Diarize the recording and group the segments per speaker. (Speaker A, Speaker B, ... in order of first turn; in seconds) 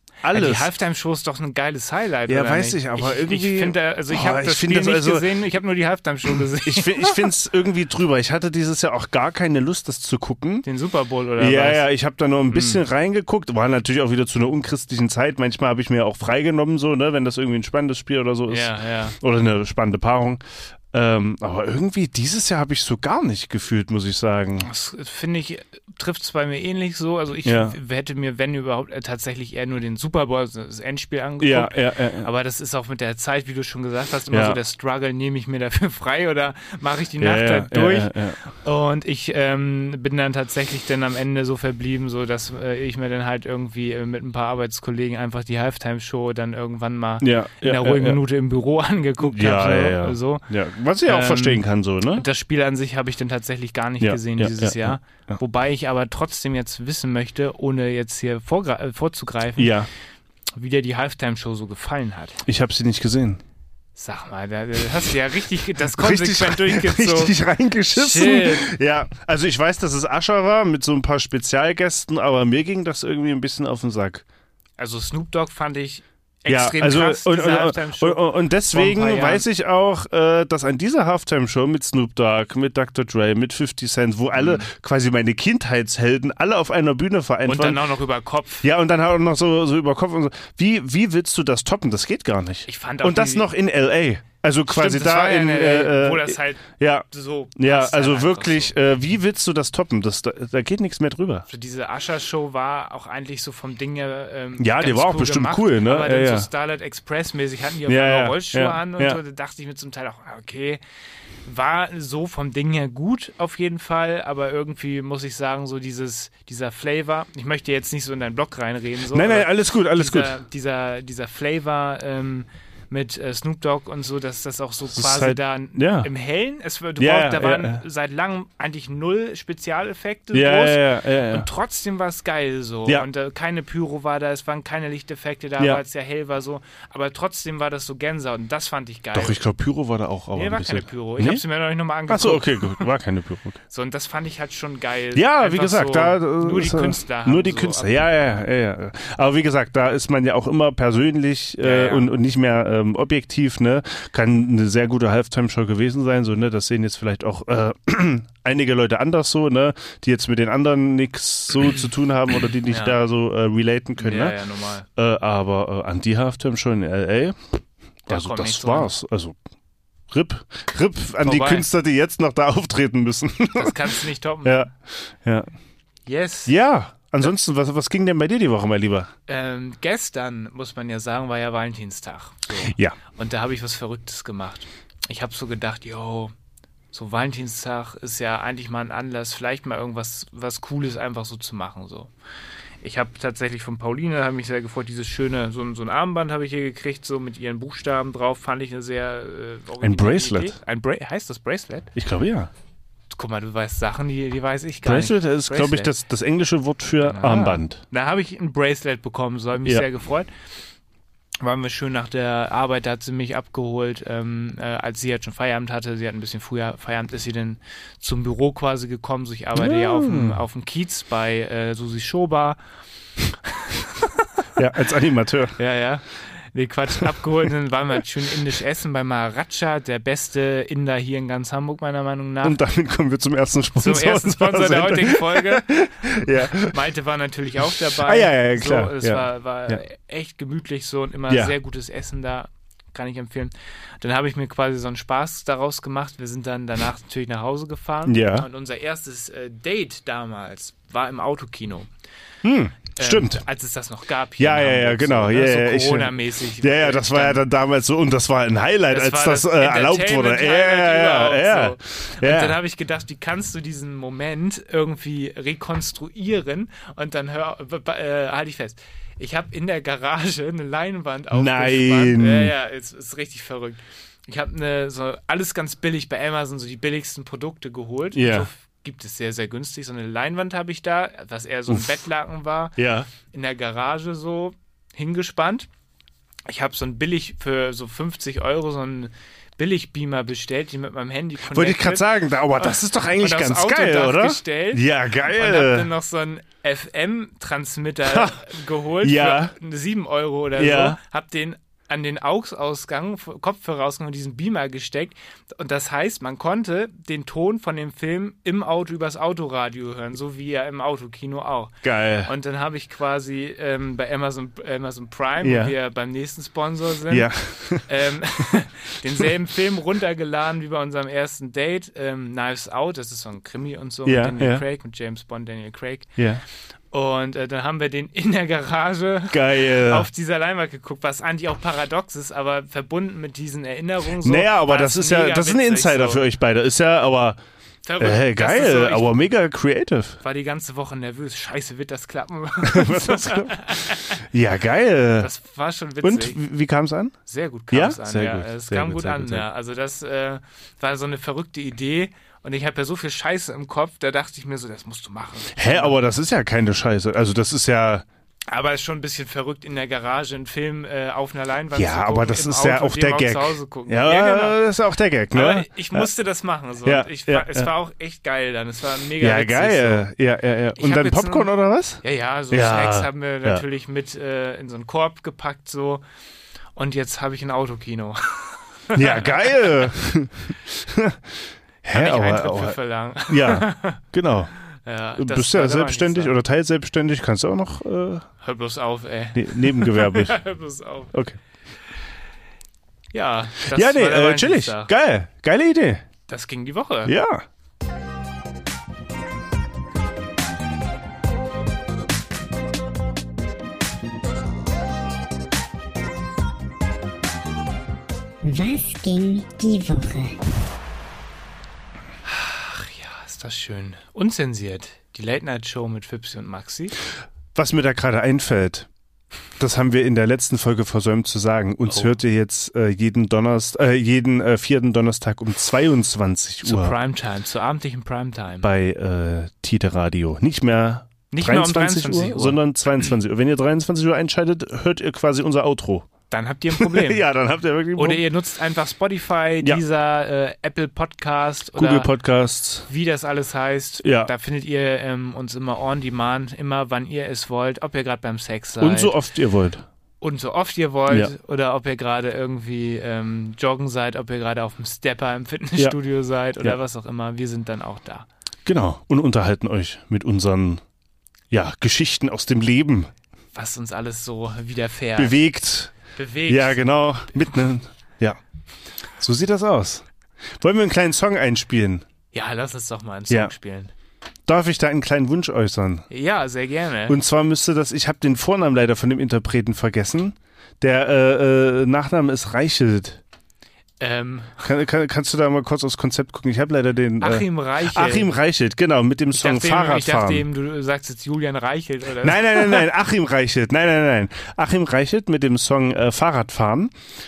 Speaker A: 0.2-0.7, 2.3-5.3, 6.7-10.7, 11.4-24.7, 27.4-27.8, 31.4-32.3, 34.3-34.6, 37.2-38.4, 47.2-48.2, 49.2-52.2, 54.0-55.4, 59.6-59.9, 62.5-63.4, 65.9-74.2, 76.5-87.8, 88.6-101.5, 104.6-106.5, 107.9-109.2, 119.1-120.4, 124.9-126.1, 127.0-127.8, 130.3-131.5, 139.1-141.4, 142.1-143.6, 145.1-164.4, 165.0-169.4, 170.1-175.5, 176.5-179.1, 182.6-183.0, 199.8-200.6, 201.9-202.5, 204.8-207.8, 219.6-220.4, 224.6-225.6, 232.4-236.7, 237.9-239.8, 241.3-241.6, 248.1-248.5, 252.4-253.4, 254.4-262.6, 271.3-272.5, 278.1-278.5, 282.8-283.1, 291.5-295.9, 298.0-298.4, 299.0-299.5, 300.6-301.0, 311.8-312.3, 315.4-315.7, 317.1-317.9, 324.1-324.6, 326.2-326.4, 329.3-330.1, 334.2-337.4, 338.0-340.2, 342.6-345.3, 346.0-347.2, 347.7-349.4, 355.5-358.1, 361.7-366.1, 366.8-367.7, 369.2-373.6, 378.9-382.8, 383.3-384.5, 385.1-388.3, 389.4-390.4, 391.1-391.4, 393.7-396.1, 397.1-397.4, 417.6-418.9, 419.6-426.9, 428.6-436.1, 436.7-438.2, 441.8-442.9, 444.0-444.3, 448.8-449.9, 458.7-460.8, 461.5-463.1, 465.2-465.9, 466.5-468.4, 469.2-470.1, 470.6-472.1, 474.5-476.1, 477.1-483.2, 484.6-490.5, 492.2-496.9
Speaker B: 0.3-7.3, 10.6-11.9, 12.5-12.8, 18.5-19.2, 24.6-50.5, 51.0-59.8, 60.5-62.4, 64.0-67.3, 67.9-68.7, 74.8-79.5, 84.4-84.7, 87.5-88.6, 92.7-93.5, 94.7-98.7, 101.5-110.8, 111.5-139.4, 140.3-142.9, 143.7-148.1, 151.6-152.1, 162.7-163.0, 164.0-164.9, 168.1-168.9, 171.2-171.7, 173.6-174.6, 176.1-176.5, 179.3-186.3, 186.9-192.1, 192.8-201.9, 203.1-205.9, 207.0-210.3, 211.4-222.6, 223.6-224.2, 225.6-232.6, 233.8-251.9, 253.0-257.4, 258.9-285.7, 286.5-317.3, 317.8-326.1, 326.9-336.2, 337.9-339.1, 340.2-344.2, 345.2-346.4, 347.3-356.0, 358.5-364.6, 365.3-370.1, 370.8-371.5, 372.0-376.0, 376.8-379.9, 381.9-384.0, 384.9-386.4, 388.4-391.1, 393.1-394.9, 396.3-397.1, 412.3-416.9, 426.6-428.7, 431.3-432.6, 436.3-437.2, 438.0-442.1, 442.9-449.1, 450.2-458.3, 463.5-465.4, 466.1-466.8, 472.3-473.9, 476.1-477.2, 484.0-484.7, 487.2-488.3, 489.3-492.9
Speaker C: 408.4-410.4